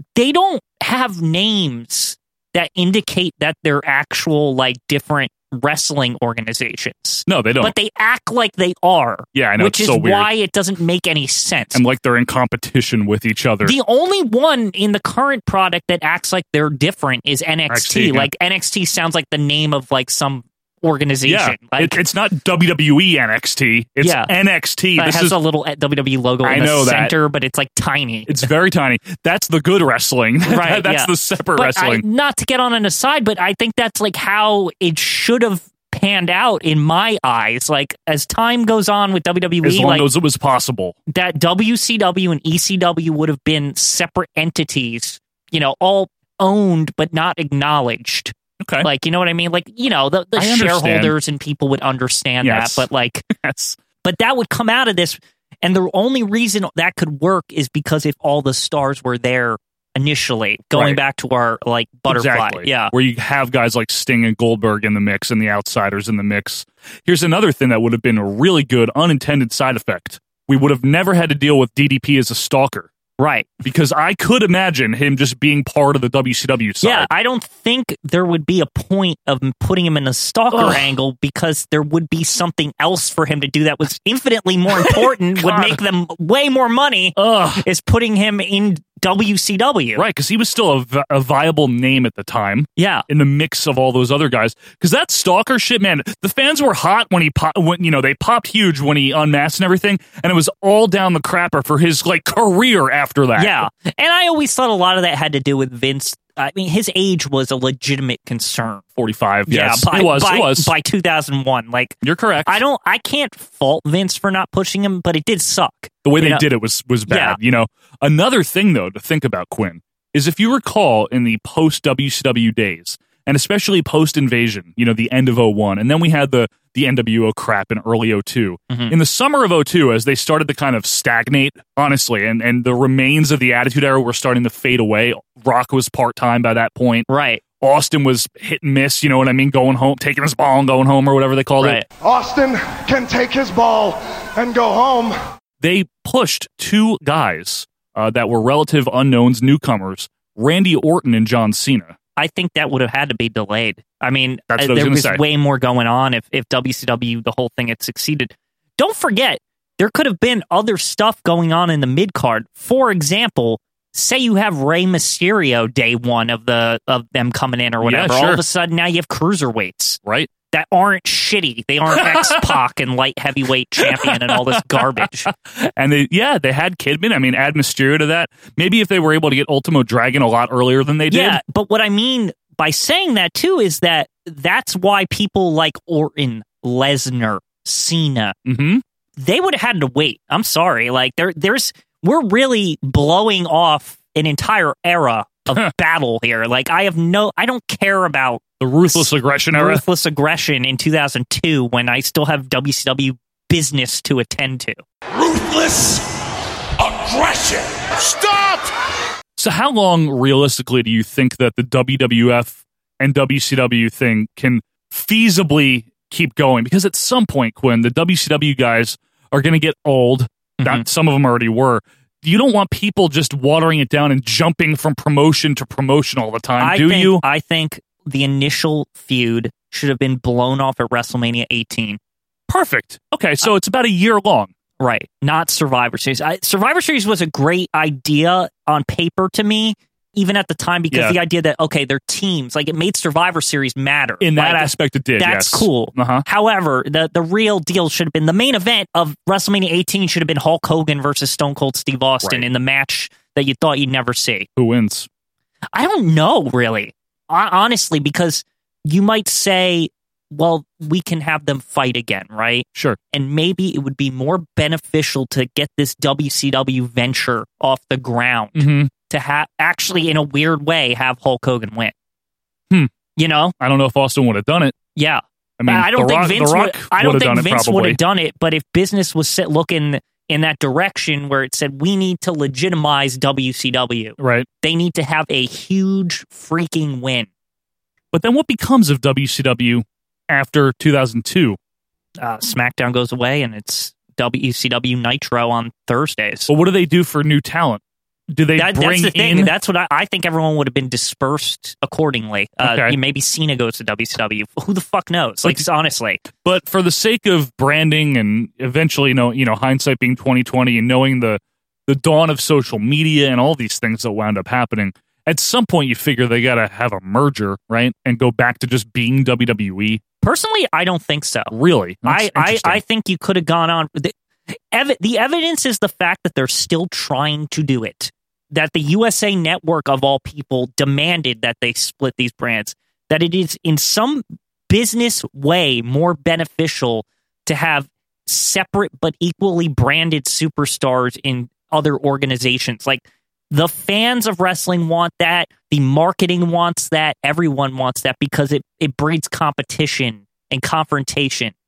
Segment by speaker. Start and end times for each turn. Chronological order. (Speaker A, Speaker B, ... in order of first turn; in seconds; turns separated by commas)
Speaker A: 0.1-11.8, Speaker B: 7.3-7.7, Speaker B: 9.3-10.3, Speaker B: 11.7-13.8, Speaker A: 13.6-22.0, Speaker B: 17.7-18.3, Speaker B: 21.2-25.4, Speaker A: 24.0-24.3, Speaker A: 24.9-28.5, Speaker B: 26.4-27.1, Speaker B: 28.3-32.0, Speaker A: 30.4-40.1, Speaker B: 39.6-41.0, Speaker A: 41.1-53.2, Speaker B: 48.6-48.9, Speaker B: 50.4-51.1, Speaker B: 52.4-53.8, Speaker A: 54.0-62.9, Speaker B: 60.7-61.0, Speaker B: 62.1-72.9, Speaker A: 73.2-73.6, Speaker B: 73.6-77.1, Speaker A: 76.8-90.0, Speaker B: 80.5-80.8, Speaker B: 84.7-85.8, Speaker B: 87.2-87.7, Speaker B: 90.0-103.7, Speaker A: 92.8-93.0, Speaker A: 103.4-108.8, Speaker B: 109.0-110.7, Speaker A: 109.5-116.5, Speaker B: 112.0-112.6, Speaker B: 116.0-137.1, Speaker A: 117.1-117.4, Speaker A: 128.7-128.9, Speaker A: 137.1-137.4, Speaker B: 137.6-141.8, Speaker A: 141.6-141.8, Speaker C: 142.0-145.2, Speaker B: 145.6-151.9, Speaker A: 152.2-170.0, Speaker B: 154.5-155.2, Speaker B: 167.8-168.4, Speaker B: 170.0-170.3, Speaker A: 170.5-175.3, Speaker B: 171.9-172.6, Speaker B: 173.8-181.4, Speaker A: 181.1-188.4, Speaker B: 188.4-188.8, Speaker A: 189.2-204.8, Speaker B: 198.6-199.8, Speaker D: 205.1-206.0, Speaker D: 206.8-208.7, Speaker B: 209.4-227.2, Speaker A: 220.6-220.8, Speaker A: 226.6-232.0, Speaker B: 232.5-234.5, Speaker A: 234.8-254.5, Speaker B: 240.9-241.2, Speaker B: 244.2-246.2, Speaker B: 252.2-252.5, Speaker B: 254.6-255.1, Speaker A: 255.7-271.9, Speaker B: 268.5-268.9, Speaker A: 273.2-273.5, Speaker B: 273.6-274.8, Speaker A: 274.9-287.3, Speaker B: 275.6-278.0, Speaker B: 284.2-284.5, Speaker B: 288.1-291.6, Speaker A: 292.2-296.5, Speaker B: 296.5-299.5, Speaker A: 298.6-306.2, Speaker B: 302.6-302.9, Speaker B: 306.2-320.0, Speaker A: 320.2-321.5, Speaker B: 321.5-322.8, Speaker A: 322.0-351.5